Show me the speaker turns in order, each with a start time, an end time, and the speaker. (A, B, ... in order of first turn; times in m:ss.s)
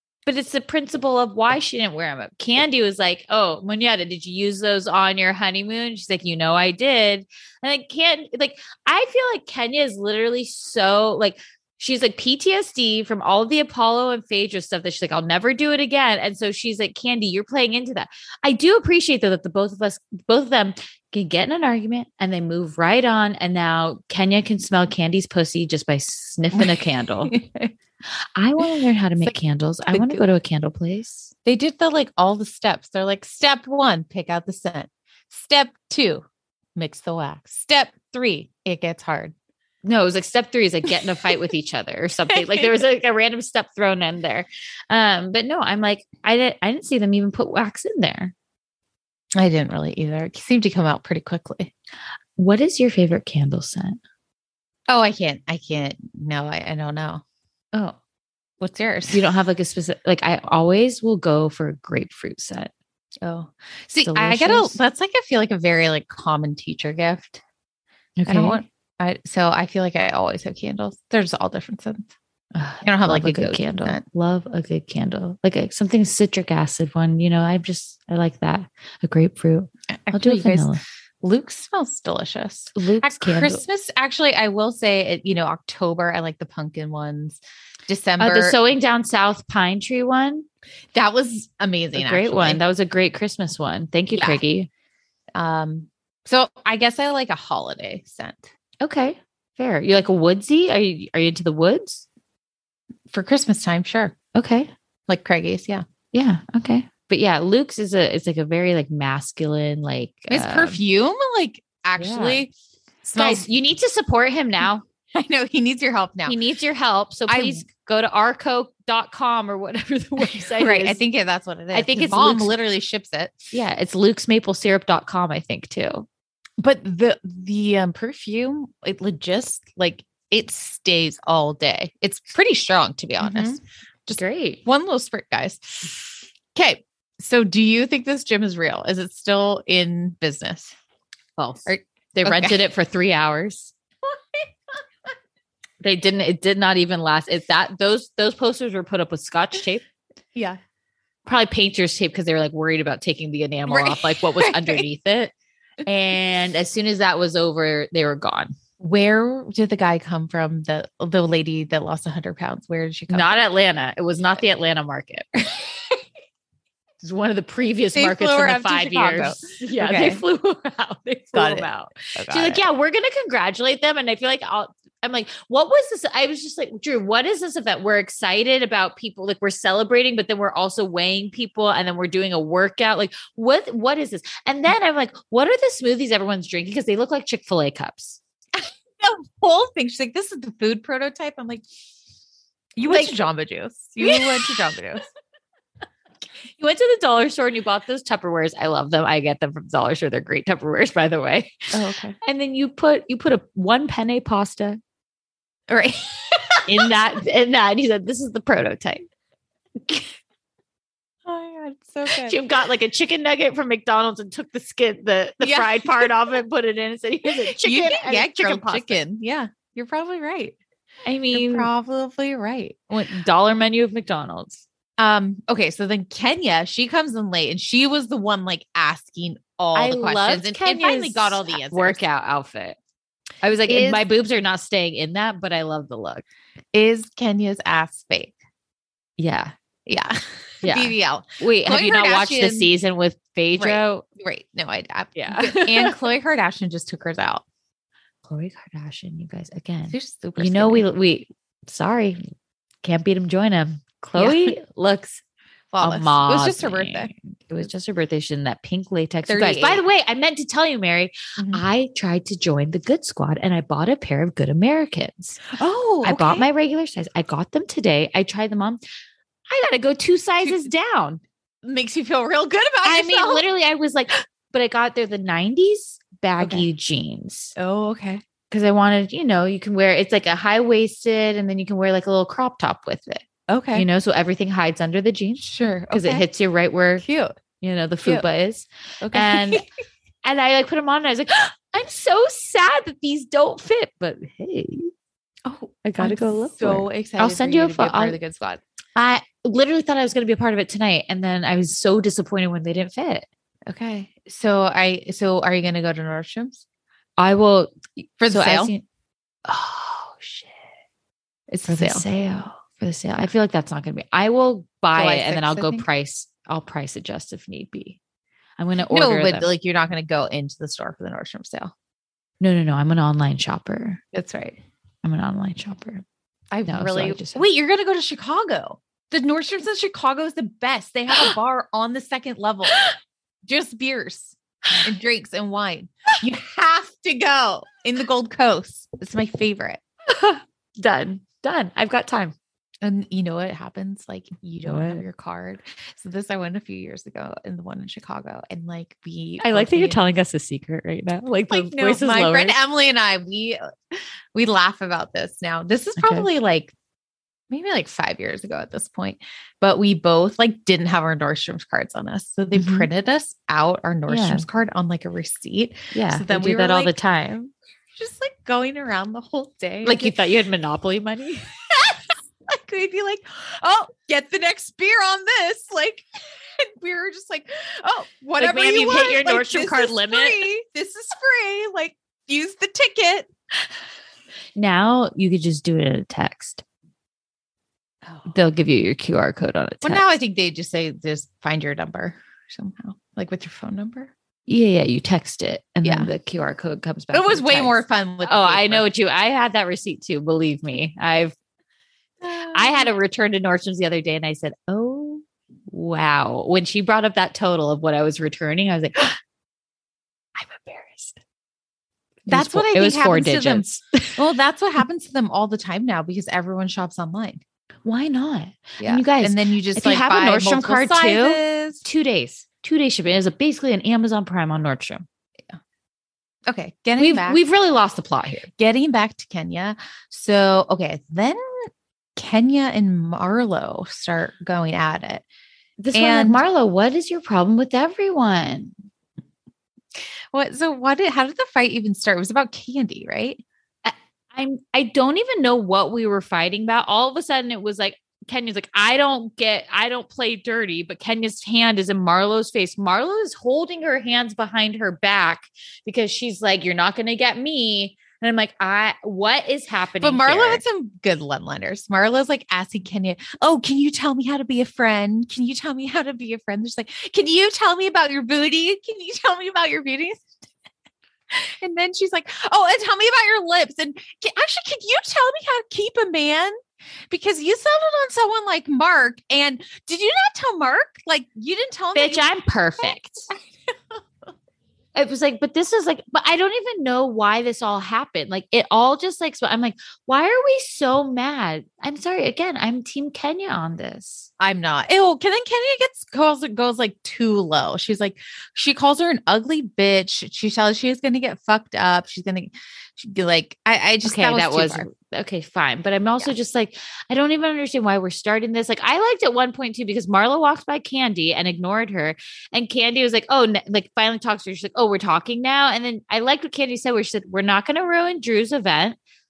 0:00.3-0:27.3 A
0:26.6-0:27.7 B
0:28.4-0:31.3 A
0:29.9-0:30.2 B
0:31.4-0:36.2 B
0:36.8-0:39.3 B
0:39.8-0:48.3 A
0:42.4-0:42.7 B
0:49.4-0:51.7 B
0:52.4-0:54.0 A
0:54.9-0:57.2 B
0:58.6-0:59.2 B
0:59.1-1:02.7 A
1:03.2-1:07.4 B
1:04.0-1:04.8 A
1:08.2-1:08.6 A
1:08.3-1:12.1 B
1:12.6-1:20.8 A
1:12.8-1:14.0 B
1:20.0-1:28.6 B
1:22.8-1:23.6 A
1:28.2-1:30.5 A
1:31.0-1:32.6 B
1:32.0-1:34.7 A
1:34.2-1:34.4 B
1:35.4-1:38.5 B
1:38.8-1:42.1 A
1:43.1-1:44.2 B
1:44.4-1:44.7 A
1:45.1-1:45.8 B
1:46.1-1:50.8 A
1:50.3-1:52.5 B
1:52.0-1:52.4 A
1:53.0-1:53.5 B
1:53.2-1:54.8 A
1:55.1-1:56.4 B
1:56.2-2:01.0 A
1:57.3-1:57.6 B
2:00.3-2:03.4 B
2:01.7-2:02.6 A
2:03.5-2:06.1 A
2:06.6-2:20.8 B
2:13.2-2:13.6 A
2:14.2-2:14.6 A
2:21.4-2:23.7 A
2:21.7-2:22.6 B
2:25.8-2:29.8 A
2:31.3-2:35.3 A
2:33.7-2:34.8 B
2:35.8-2:38.6 A
2:38.8-2:43.4 B
2:43.1-2:45.9 A
2:47.0-3:08.2 A
2:48.0-2:50.2 B
2:51.3-2:52.6 B
3:08.6-3:11.6 B
3:12.8-3:15.1 B
3:12.9-3:13.2 A
3:14.0-3:14.6 A
3:16.6-3:21.7 A
3:21.7-3:22.2 B
3:22.2-3:24.8 A
3:25.7-3:26.9 B
3:26.7-3:29.1 A
3:31.3-3:32.4 B
3:32.1-3:39.0 A
3:35.4-3:36.1 B
3:37.3-3:40.6 B
3:41.0-3:41.7 A
3:41.3-3:42.9 B
3:42.9-3:44.6 A
3:45.0-3:52.0 B
3:49.8-3:52.8 A
3:53.4-3:56.2 A
3:53.7-3:54.0 B
3:56.7-3:58.3 B
3:59.2-3:59.5 A
3:59.9-4:02.7 B
4:00.6-4:04.0 A
4:03.6-4:07.4 B
4:05.2-4:06.0 A
4:08.3-4:12.2 A
4:09.9-4:10.9 B
4:12.8-4:15.2 A
4:14.2-4:14.6 B
4:15.7-4:17.1 B
4:15.8-4:25.4 A
4:19.3-4:19.8 B
4:21.4-4:21.6 B
4:25.5-4:26.5 B
4:26.0-4:28.8 A
4:29.5-4:31.2 A
4:30.4-4:30.7 B
4:31.6-4:33.5 B
4:32.8-4:37.6 A
4:36.4-4:36.7 B
4:37.6-4:38.2 B
4:38.5-4:47.0 A
4:43.5-4:43.9 B
4:45.4-4:46.2 B
4:47.0-4:47.4 B
4:47.6-4:49.6 A
4:49.0-4:49.6 B
4:50.2-4:54.9 A
4:55.4-4:58.6 B
4:55.8-4:58.2 A
4:59.0-5:03.3 A
5:03.7-5:06.6 B
5:07.2-5:08.8 A
5:08.2-5:08.7 B
5:09.5-5:10.6 A
5:11.5-5:12.0 B
5:11.7-5:18.0 A
5:15.0-5:15.9 B
5:18.6-5:19.5 A
5:18.9-5:21.7 B
5:22.4-5:24.0 A
5:24.1-5:24.6 B
5:25.0-5:26.0 A
5:26.5-5:32.9 B
5:26.7-5:27.4 A
5:33.5-5:39.8 B
5:40.1-5:42.4 A
5:42.8-5:50.0 B
5:44.6-5:45.0 A
5:49.4-5:52.6 A
5:51.5-5:53.6 B
5:54.3-5:56.7 B
5:56.0-5:56.3 A
5:57.5-6:06.9 B
6:02.5-6:02.9 A
6:04.1-6:04.5 A
6:05.9-6:07.5 A
6:08.0-6:10.2 B
6:09.8-6:11.5 A
6:11.7-6:16.1 B
6:16.6-6:23.3 B
6:18.4-6:20.5 A
6:24.6-6:26.6 A
6:28.3-6:30.0 A
6:29.8-6:34.1 B
6:34.5-6:41.4 A
6:35.8-6:36.1 B
6:37.1-6:38.8 B
6:42.2-6:42.9 B
6:42.5-6:49.2 A
6:50.4-6:51.2 A
6:52.3-6:54.2 A
6:52.3-6:57.4 B
6:57.8-7:05.0 A
6:58.8-7:01.8 B
7:06.5-7:07.4 B
7:07.0-7:08.5 A
7:08.6-7:15.2 B
7:15.8-7:18.8 A
7:15.9-7:16.4 B
7:20.3-7:23.4 B
7:23.8-7:40.6 A
7:40.0-7:50.3 B
7:51.3-7:56.6 B
7:57.1-8:02.3 B
8:02.0-8:03.3 A
8:05.0-8:14.3 A
8:14.4-8:24.9 B
8:24.0-8:39.0 A